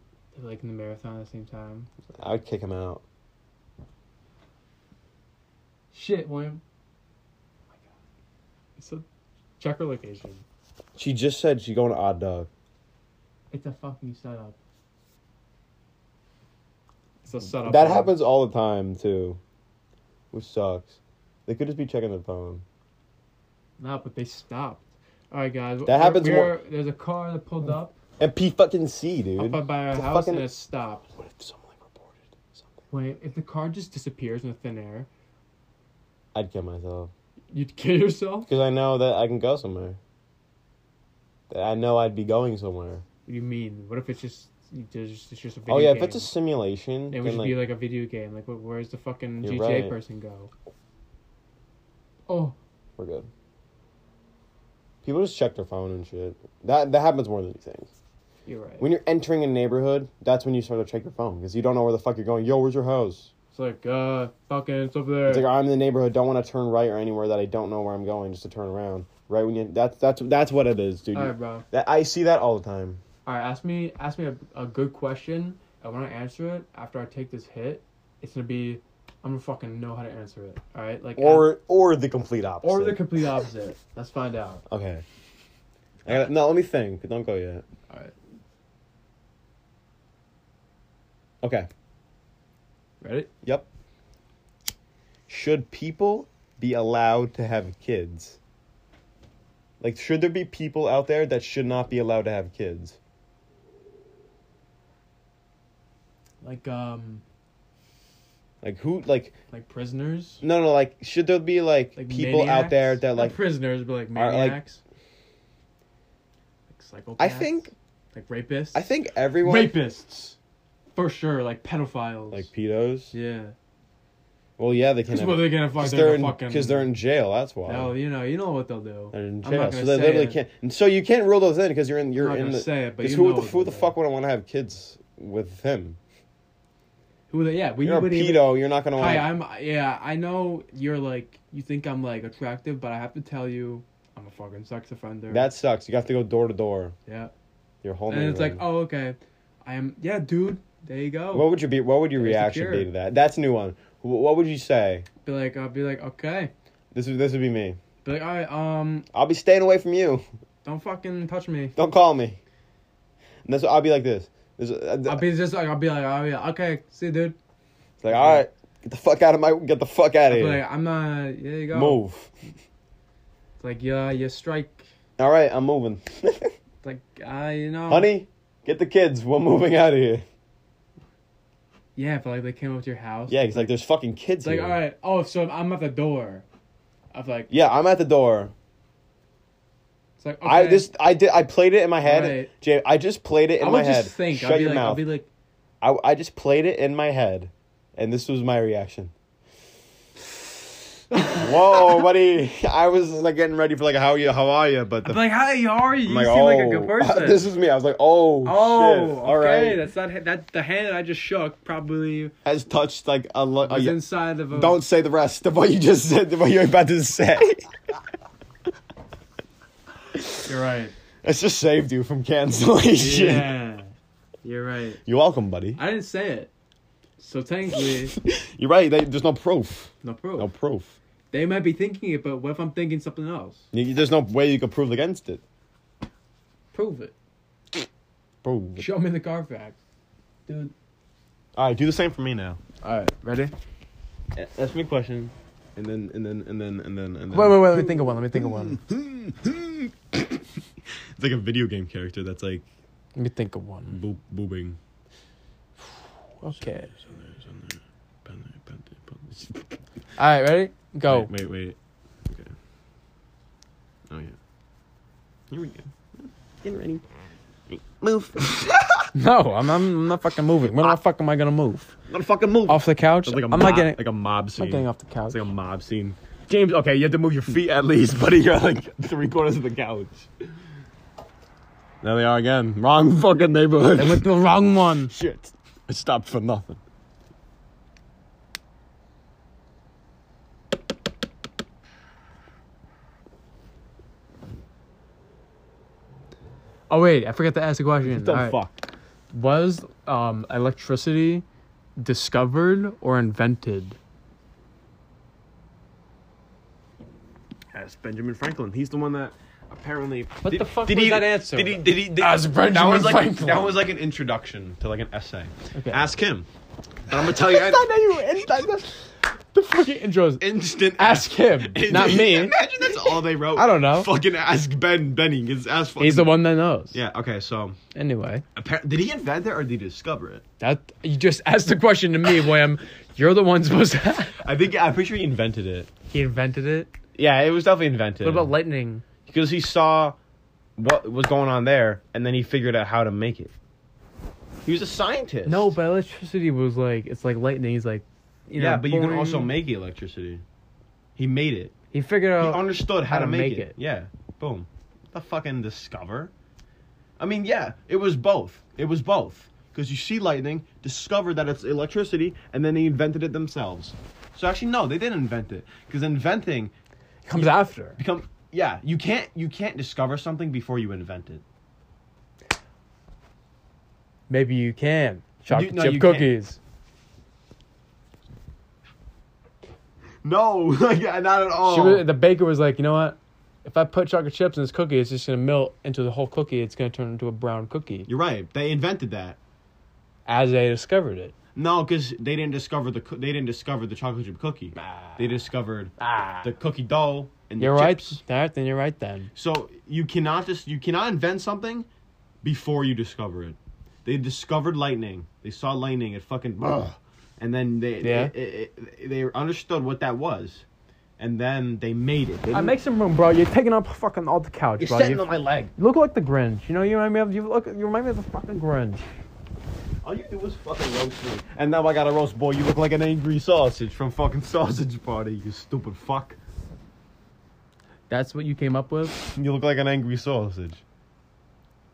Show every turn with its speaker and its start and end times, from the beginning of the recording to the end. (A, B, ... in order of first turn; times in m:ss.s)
0:00.3-0:01.9 A
0:02.2-0:03.0 B
0:05.9-0:06.6 A
0:08.8-0:09.0 A
0:09.6-0:10.4 A
0:11.0-0:12.5 B
0:13.5-0:14.6 A
0:17.2-0:18.1 A
0:17.6-0:19.4 B
0:20.3-0:22.6 B
0:23.8-0:27.9 A
0:25.9-0:26.6 B
0:28.2-0:30.5 B
0:29.4-0:31.1 A
0:31.2-0:32.8 B
0:32.9-0:35.1 A
0:36.3-0:37.1 B
0:37.5-0:38.5 A
0:38.5-0:40.0 B
0:41.5-0:43.0 B
0:43.3-0:46.3 A
0:45.7-0:47.6 B
0:47.1-0:50.5 A
0:49.4-0:50.0 B
0:52.3-0:52.6 A
0:53.0-0:53.3 B
0:55.0-0:57.9 B
0:58.5-0:58.9 A
0:58.8-1:03.3 B
1:03.5-1:05.5 A
1:05.3-1:13.0 B
1:11.1-1:11.6 A
1:13.2-1:21.5 A
1:21.2-1:23.3 B
1:22.6-1:24.6 A
1:24.7-1:25.0 B
1:26.0-1:27.6 B
1:31.4-1:31.7 B
1:33.0-1:33.3 A
1:35.3-1:38.4 B
1:39.8-1:43.0 B
1:46.4-1:47.2 A
1:48.6-1:49.3 B
1:49.5-1:50.4 A
1:50.4-1:53.4 B
1:52.0-1:54.8 A
1:54.2-1:54.6 B
1:56.7-1:58.9 A
1:57.2-1:57.7 B
1:58.7-1:59.8 B
1:59.4-2:00.4 A
2:01.0-2:02.5 A
2:02.3-2:03.1 B
2:03.1-2:03.6 A
2:04.6-2:07.9 B
2:05.1-2:06.9 A
2:07.7-2:10.4 A
2:09.1-2:16.0 B
2:12.2-2:14.0 A
2:17.3-2:25.5 A
2:17.8-2:19.3 B
2:25.3-2:27.0 B
2:27.1-2:27.3 A
2:27.8-2:28.6 B
2:28.1-2:31.5 A
2:31.3-2:35.1 B
2:32.2-2:32.9 A
2:35.2-2:36.5 A
2:36.9-2:37.8 B
2:38.0-2:39.1 A
2:39.1-2:40.2 B
2:40.6-2:41.8 A
2:41.8-2:42.4 B
2:43.5-2:45.2 B
2:45.1-2:47.4 A
2:48.0-2:50.6 B
2:48.1-2:48.5 A
2:50.3-2:52.0 A
2:51.7-2:52.3 B
2:53.6-2:54.9 A
2:55.2-2:56.5 B
2:56.8-2:58.1 A
2:57.9-3:00.2 B
3:02.0-3:03.7 A
3:03.3-3:04.8 B
3:04.4-3:06.4 A
3:07.1-3:07.5 A
3:07.5-3:08.5 B
3:10.2-3:10.9 A
3:10.4-3:15.1 B
3:12.0-3:12.5 A
3:13.6-3:15.3 A
3:15.8-3:19.1 B
3:21.1-3:22.0 A
3:21.3-3:25.2 B
3:25.0-3:27.4 A
3:26.0-3:29.8 B
3:28.4-3:32.3 A
3:32.4-3:37.7 B
3:33.6-3:34.8 A
3:40.2-3:40.5 B
3:40.5-3:40.9 A
3:41.2-3:43.5 B
3:43.0-3:43.9 A
3:44.4-3:45.0 A
3:45.0-3:45.8 B
3:45.8-3:46.5 A
3:47.2-3:48.2 A
3:48.2-3:51.0 B
3:50.0-3:50.5 A
3:51.3-3:53.7 A
3:53.7-3:55.4 B
3:56.7-3:57.1 A
3:58.4-3:58.9 B
3:58.8-3:59.8 A
4:00.5-4:00.7 A
4:01.6-4:02.6 B
4:02.8-4:03.5 A
4:04.4-4:10.4 B
4:07.3-4:08.8 A
4:11.2-4:12.7 B
4:13.2-4:14.0 A
4:13.9-4:14.8 B
4:16.4-4:16.9 A
4:16.4-4:19.8 B
4:20.2-4:21.3 A
4:21.1-4:21.8 B
4:22.3-4:22.5 B
4:24.1-4:24.4 B
4:25.5-4:25.9 B
4:26.6-4:27.0 B
4:27.7-4:29.1 B
4:29.1-4:31.9 A
4:32.1-4:40.3 B
4:32.7-4:34.0 A
4:34.6-4:35.5 A
4:42.0-4:44.3 B
4:44.0-4:45.1 A
4:45.0-4:46.8 B
4:56.9-4:58.6 A
4:58.0-4:58.9 B
4:59.3-5:01.4 A
5:02.0-5:04.0 A
5:07.7-5:16.5 B
5:10.4-5:13.8 A
5:15.7-5:16.1 A
5:17.1-5:17.9 B
5:17.1-5:24.1 A
5:20.4-5:26.4 B
5:26.0-5:27.0 A
5:26.9-5:27.8 B
5:27.9-5:28.4 A
5:28.6-5:30.4 B
5:30.6-5:34.4 A
5:34.4-5:35.9 B
5:36.1-5:36.9 A
5:37.2-5:38.5 B
5:38.2-5:39.0 A
5:39.3-5:40.2 B
5:40.8-5:43.5 B
5:44.6-5:45.8 B
5:45.5-5:49.5 A
5:48.6-5:50.4 B
5:51.2-5:51.7 B
5:51.9-5:53.8 A
5:52.4-5:56.3 B
5:57.2-6:06.7 B
6:07.2-6:08.0 A
6:08.0-6:11.4 B
6:14.3-6:16.6 A
6:15.5-6:16.3 B
6:20.2-6:22.1 B
6:21.6-6:28.1 A
6:28.1-6:29.4 B
6:30.3-6:31.3 A
6:31.6-6:38.2 B
6:34.8-6:35.3 A
6:36.0-6:36.5 A
6:37.6-6:39.3 A
6:39.4-6:41.9 B
6:42.4-6:50.6 B
6:48.0-6:48.3 A
6:51.2-6:52.8 B
6:52.5-6:55.2 A
6:54.8-6:55.7 B
6:55.8-6:59.1 A
7:00.0-7:06.4 B
7:08.1-7:09.2 A
7:09.2-7:10.8 B